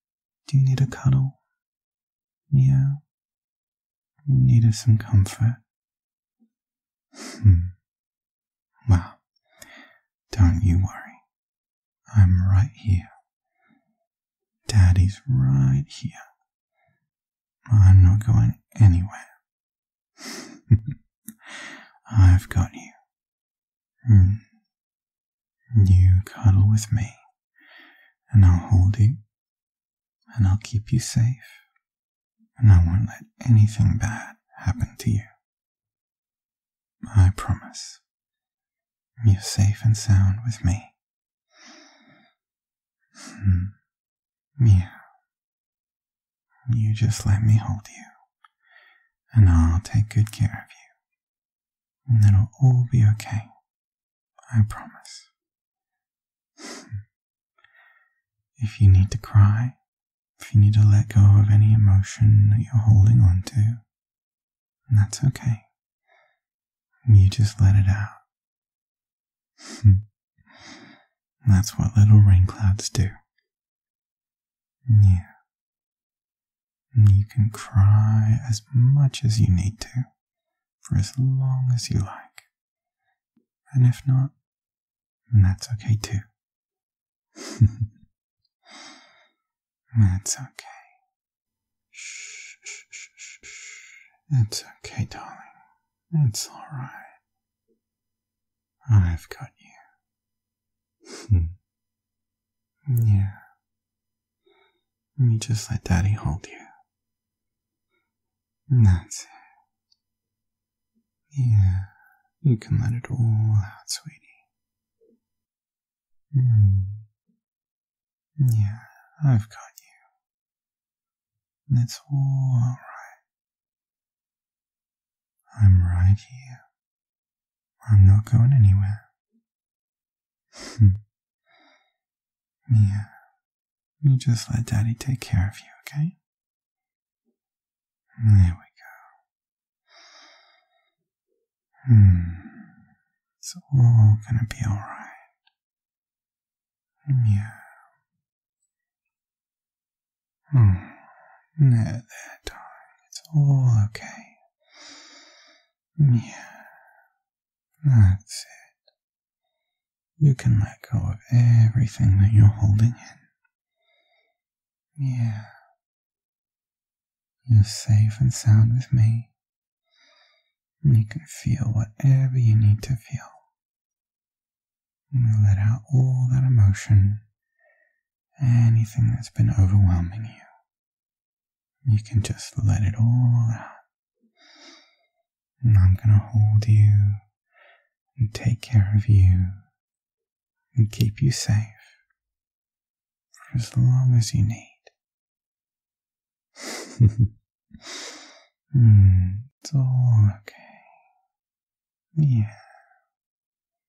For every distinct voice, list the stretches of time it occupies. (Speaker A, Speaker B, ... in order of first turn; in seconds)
Speaker A: 0.5-1.4, 2.5-3.0, 4.3-5.6, 7.2-7.7, 8.9-9.2, 10.3-11.2, 12.1-13.1, 14.7-16.3, 17.7-19.3, 20.3-20.8, 21.5-23.0, 24.1-24.4, 25.8-27.2, 28.3-29.2, 30.3-31.6, 32.6-35.3, 37.1-38.0, 39.2-40.9, 43.2-43.7, 44.6-45.1, 46.7-48.2, 49.3-50.9, 52.1-53.5, 54.5-55.3, 58.6-59.8, 60.4-63.8, 64.9-65.7, 67.1-68.2, 69.6-70.0, 71.4-73.2, 74.9-75.3, 76.9-80.1, 80.8-82.5, 83.7-84.3, 85.3-86.3, 87.5-87.7, 90.0-91.0, 91.9-97.2, 98.9-99.9, 101.1-101.5, 102.9-103.4, 105.2-106.7, 108.7-109.4, 111.3-111.9, 112.4-114.4, 116.3-117.1, 118.4-120.0, 121.7-123.2, 125.5-126.6, 127.8-129.1, 130.6-131.0, 132.7-133.1, 134.0-136.2, 138.2-139.1, 141.9-142.9, 143.4-145.3, 147.1-147.8, 150.5-154.4, 156.0-156.9, 157.8-158.8, 160.2-163.3, 165.0-165.5, 167.5-169.3, 170.8-173.5, 175.1-177.2, 178.4-180.5, 181.8-183.8, 185.6-187.2, 188.2-189.7, 190.8-192.0, 193.3-194.9, 196.7-197.2, 198.7-201.1, 202.2-202.8